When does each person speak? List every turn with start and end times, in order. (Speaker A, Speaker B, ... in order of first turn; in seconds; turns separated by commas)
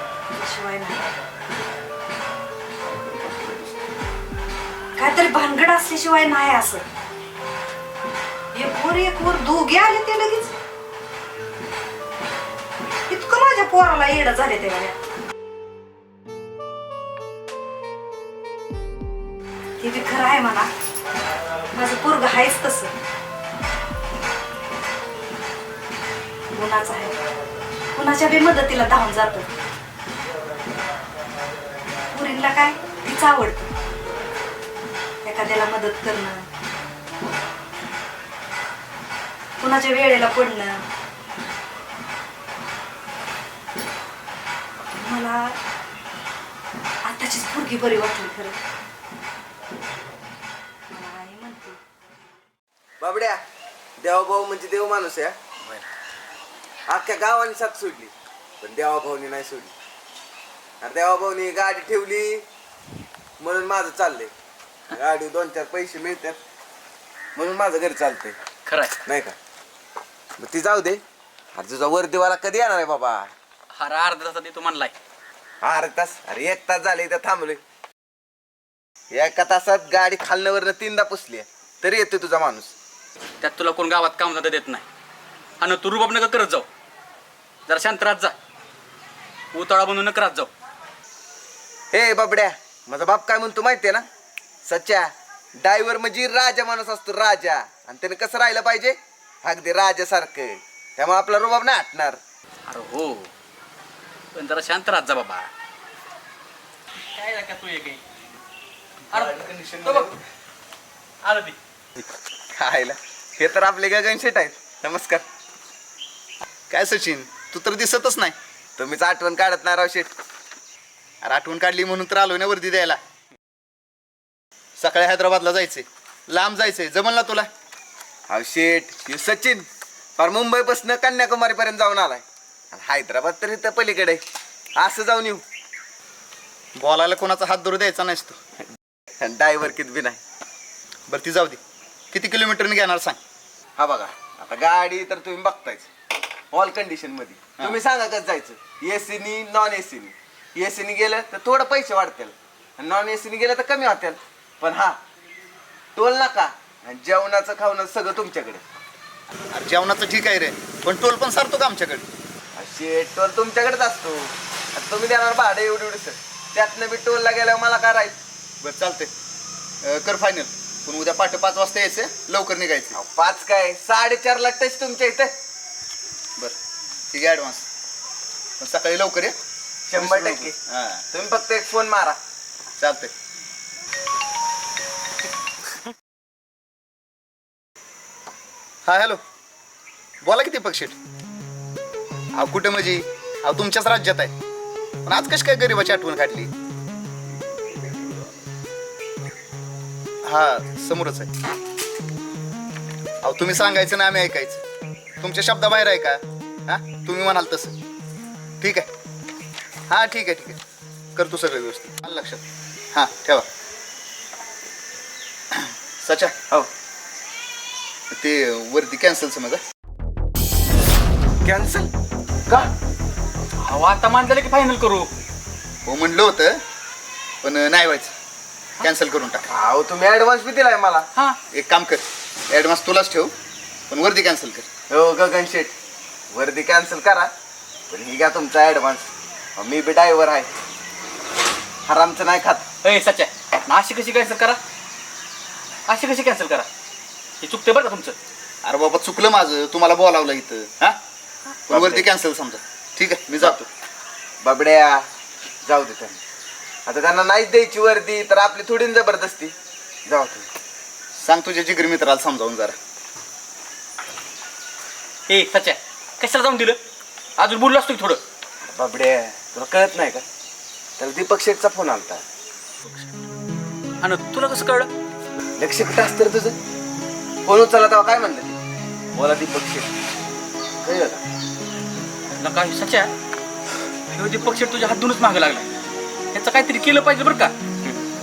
Speaker A: 0.3-1.1, Speaker A: 5.0-6.8, Speaker A: 8.5-10.5, Speaker A: 13.1-15.0, Speaker A: 19.8-20.7, Speaker A: 21.7-22.9, Speaker A: 26.5-27.2, Speaker A: 27.9-29.5, Speaker A: 32.1-33.7, Speaker A: 35.2-36.4, Speaker A: 39.6-40.8, Speaker A: 44.9-45.5, Speaker A: 47.0-48.6, Speaker A: 50.9-51.8, Speaker B: 53.0-53.4, Speaker B: 54.0-55.4, Speaker B: 56.9-59.7, Speaker B: 60.8-62.4, Speaker B: 63.4-64.3, Speaker B: 64.9-66.4, Speaker B: 67.3-68.4, Speaker C: 68.7-69.0, Speaker B: 69.0-69.3, Speaker B: 70.4-71.0, Speaker B: 71.5-73.3, Speaker C: 73.7-74.9, Speaker B: 75.6-77.6, Speaker B: 79.1-82.7, Speaker C: 83.4-84.8, Speaker C: 85.6-86.7, Speaker C: 87.7-88.3, Speaker C: 89.5-90.5, Speaker B: 91.9-94.0, Speaker B: 94.6-102.2, Speaker C: 102.7-103.3, Speaker C: 104.3-105.5, Speaker C: 107.1-108.0, Speaker C: 109.1-110.1, Speaker B: 109.2-110.1, Speaker C: 111.2-112.0, Speaker B: 112.6-115.2, Speaker D: 116.7-118.3, Speaker B: 118.8-120.1, Speaker D: 121.2-123.0, Speaker D: 124.8-127.5, Speaker B: 128.3-129.7, Speaker B: 130.2-134.2, Speaker B: 134.8-135.4, Speaker D: 136.8-138.4, Speaker B: 139.2-140.2, Speaker D: 141.1-141.6, Speaker D: 142.1-143.2, Speaker B: 143.8-145.9, Speaker B: 146.5-155.0, Speaker B: 155.9-158.6, Speaker D: 159.5-162.0, Speaker B: 162.6-168.2, Speaker D: 168.6-169.1, Speaker D: 169.8-172.9, Speaker B: 172.9-175.3, Speaker D: 177.1-177.6, Speaker D: 178.6-179.3, Speaker B: 179.9-180.6, Speaker D: 179.9-181.0, Speaker B: 181.1-182.2, Speaker D: 182.8-183.1, Speaker D: 188.8-189.2, Speaker D: 190.2-190.9, Speaker D: 192.3-194.3, Speaker D: 195.0-196.5, Speaker D: 200.2-201.3, Speaker D: 203.2-204.6, Speaker D: 205.2-207.7, Speaker D: 208.6-208.9, Speaker D: 209.9-210.6, Speaker D: 211.2-212.4, Speaker D: 212.9-213.4, Speaker D: 215.5-216.3, Speaker D: 218.1-219.6, Speaker B: 221.4-221.9, Speaker C: 223.6-225.1, Speaker D: 225.8-226.6, Speaker D: 227.4-228.1, Speaker D: 228.8-229.4, Speaker B: 229.5-231.1, Speaker D: 231.5-233.3, Speaker D: 233.9-234.7, Speaker B: 234.9-235.7, Speaker B: 236.3-237.3, Speaker B: 237.9-240.5, Speaker B: 241.8-242.7, Speaker C: 242.8-244.6, Speaker C: 245.9-246.7, Speaker C: 247.4-248.2, Speaker D: 248.6-251.0, Speaker D: 251.7-253.7, Speaker B: 251.7-252.1, Speaker B: 254.4-255.0, Speaker B: 255.6-256.2, Speaker B: 256.9-259.5, Speaker B: 260.1-260.5, Speaker D: 261.2-262.8, Speaker C: 265.3-266.8, Speaker C: 267.4-268.2, Speaker B: 268.6-270.2, Speaker B: 271.0-272.2, Speaker C: 274.0-274.9, Speaker B: 275.6-276.6, Speaker B: 277.4-278.5, Speaker B: 279.1-279.9, Speaker B: 280.8-281.2, Speaker C: 282.4-283.1, Speaker C: 284.1-285.7, Speaker C: 286.3-287.5